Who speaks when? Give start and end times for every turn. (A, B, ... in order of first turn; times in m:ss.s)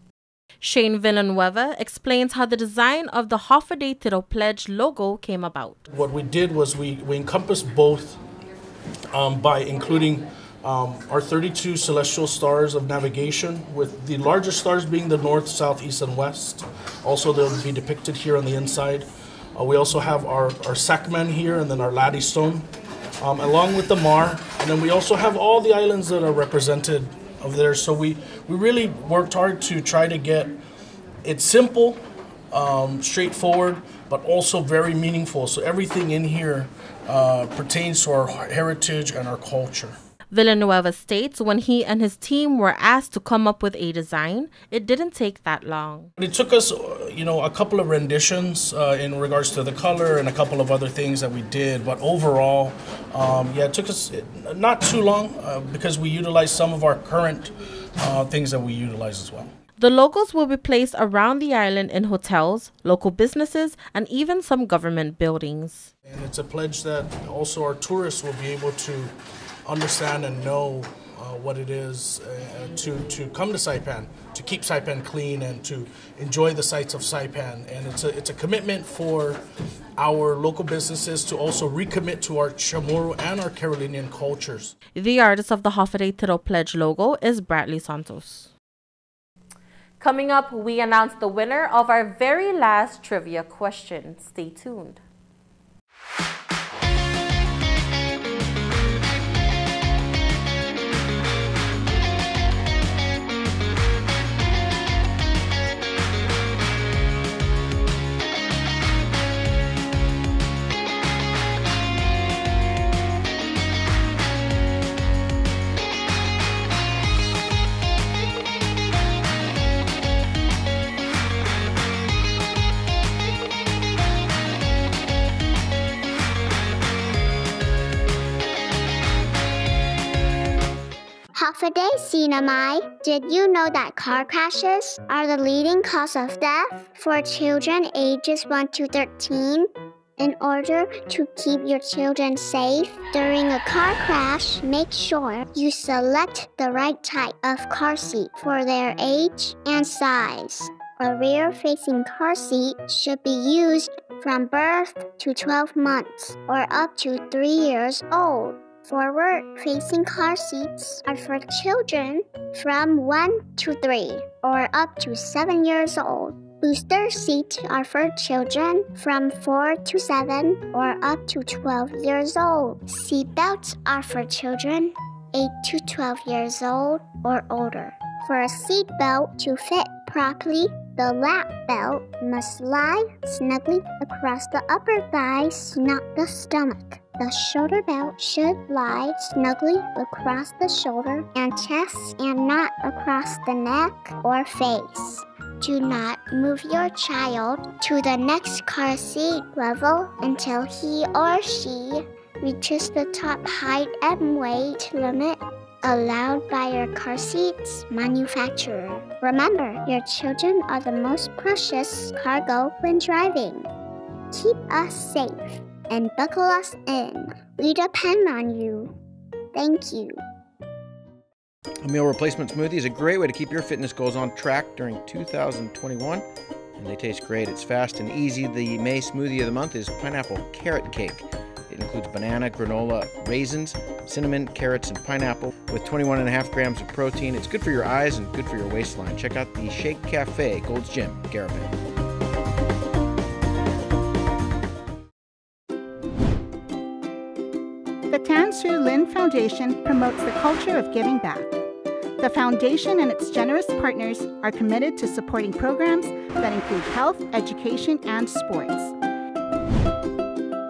0:00.6-0:05.8 A
0:05.9-0:08.2 B
0:09.1-0:22.6 B
0:23.2-0:30.6 B
0:31.2-0:40.0 B
0:40.3-0:46.1 A
0:46.2-0:59.5 B
0:59.8-1:05.9 A
1:06.0-1:09.1 B
1:09.6-1:19.4 B
1:20.0-1:24.7 B
1:25.0-1:28.5 A
1:30.0-1:35.0 A
2:11.3-3:33.7 C
3:34.3-3:38.9 C
3:39.5-3:40.2 C
3:41.8-3:46.2 D
3:46.8-4:01.7 D
4:08.1-4:11.6 E
4:12.2-4:18.9 E